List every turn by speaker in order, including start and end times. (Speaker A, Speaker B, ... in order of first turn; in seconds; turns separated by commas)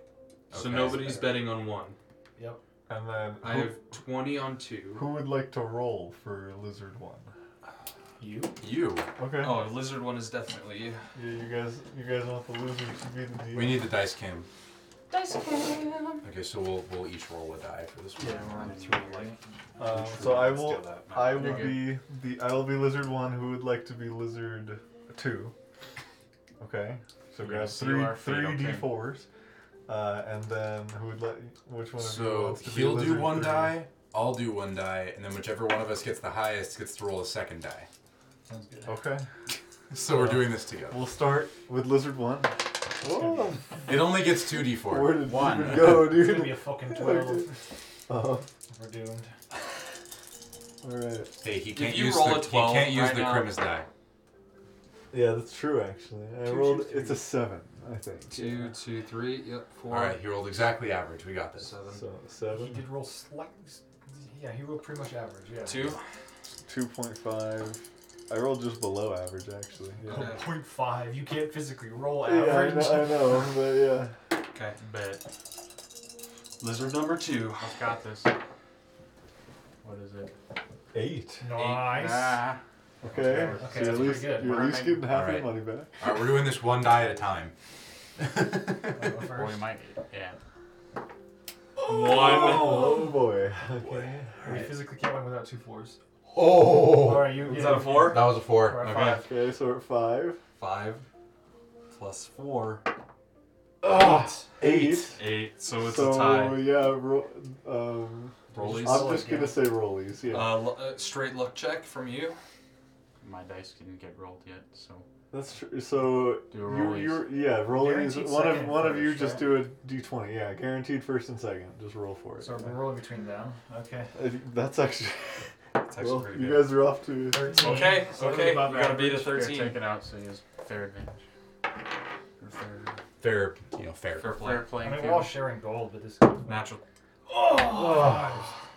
Speaker A: 0.5-1.1, Speaker B: 0.5-2.0, Speaker C: 2.4-2.6, Speaker D: 2.9-3.8, Speaker B: 3.4-5.1, Speaker D: 4.9-7.3, Speaker C: 8.2-8.6, Speaker A: 8.6-9.1, Speaker D: 9.2-9.7, Speaker B: 9.4-11.0, Speaker D: 11.1-13.9, Speaker A: 13.5-14.5, Speaker B: 15.1-16.2, Speaker A: 16.2-18.7, Speaker C: 18.2-19.4, Speaker B: 18.3-19.3, Speaker E: 18.5-19.0, Speaker D: 19.8-25.5, Speaker B: 19.9-21.7, Speaker E: 21.3-21.8, Speaker D: 26.6-29.3, Speaker E: 27.4-29.0, Speaker D: 29.9-33.8, Speaker A: 32.0-37.9, Speaker C: 38.5-39.0, Speaker D: 38.9-39.2, Speaker A: 39.9-41.0, Speaker D: 40.1-43.7, Speaker C: 43.0-43.6, Speaker A: 43.9-45.8, Speaker D: 44.5-47.5, Speaker E: 45.2-46.0, Speaker C: 46.0-47.7, Speaker D: 48.1-48.5, Speaker C: 48.7-49.3, Speaker D: 50.8-51.4, Speaker A: 51.4-53.9, Speaker B: 51.7-53.5, Speaker D: 55.1-58.4, Speaker C: 56.5-57.2, Speaker B: 58.3-60.2, Speaker C: 58.3-58.7, Speaker A: 59.9-61.7, Speaker B: 61.6-62.0, Speaker D: 61.9-62.8, Speaker C: 62.5-66.0, Speaker B: 65.7-66.0, Speaker D: 66.7-70.3, Speaker C: 70.0-73.5, Speaker B: 70.0-70.4, Speaker D: 72.2-74.1, Speaker B: 74.5-74.8, Speaker E: 74.8-75.2, Speaker B: 76.6-77.7, Speaker E: 77.6-78.3, Speaker E: 79.8-80.3, Speaker D: 80.9-81.4, Speaker C: 81.4-82.4, Speaker B: 81.6-81.8, Speaker E: 81.6-82.6, Speaker D: 83.0-86.1, Speaker E: 83.2-85.1, Speaker C: 83.3-84.8, Speaker A: 85.1-87.5, Speaker A: 88.2-89.1, Speaker C: 88.9-89.7, Speaker E: 89.2-90.4, Speaker B: 91.8-93.1, Speaker D: 91.8-94.7, Speaker C: 94.4-96.0, Speaker A: 96.3-99.2, Speaker C: 96.9-99.2, Speaker B: 97.5-98.3, Speaker D: 99.0-100.4, Speaker B: 100.6-101.0, Speaker B: 101.9-102.8, Speaker D: 103.8-110.7, Speaker B: 105.1-106.7, Speaker B: 108.5-109.3, Speaker C: 108.5-109.7, Speaker B: 110.3-112.4, Speaker E: 113.2-115.0, Speaker D: 115.3-122.7, Speaker E: 116.4-117.3, Speaker C: 117.7-119.7, Speaker C: 122.4-124.1, Speaker D: 124.1-127.8, Speaker B: 125.8-126.8, Speaker C: 127.3-128.5, Speaker B: 127.5-129.8, Speaker E: 128.2-131.2, Speaker E: 132.4-133.0, Speaker A: 133.2-134.4, Speaker B: 134.2-134.6, Speaker E: 134.3-135.5, Speaker C: 134.8-136.7, Speaker B: 136.4-136.8, Speaker C: 137.3-138.5, Speaker D: 137.6-138.5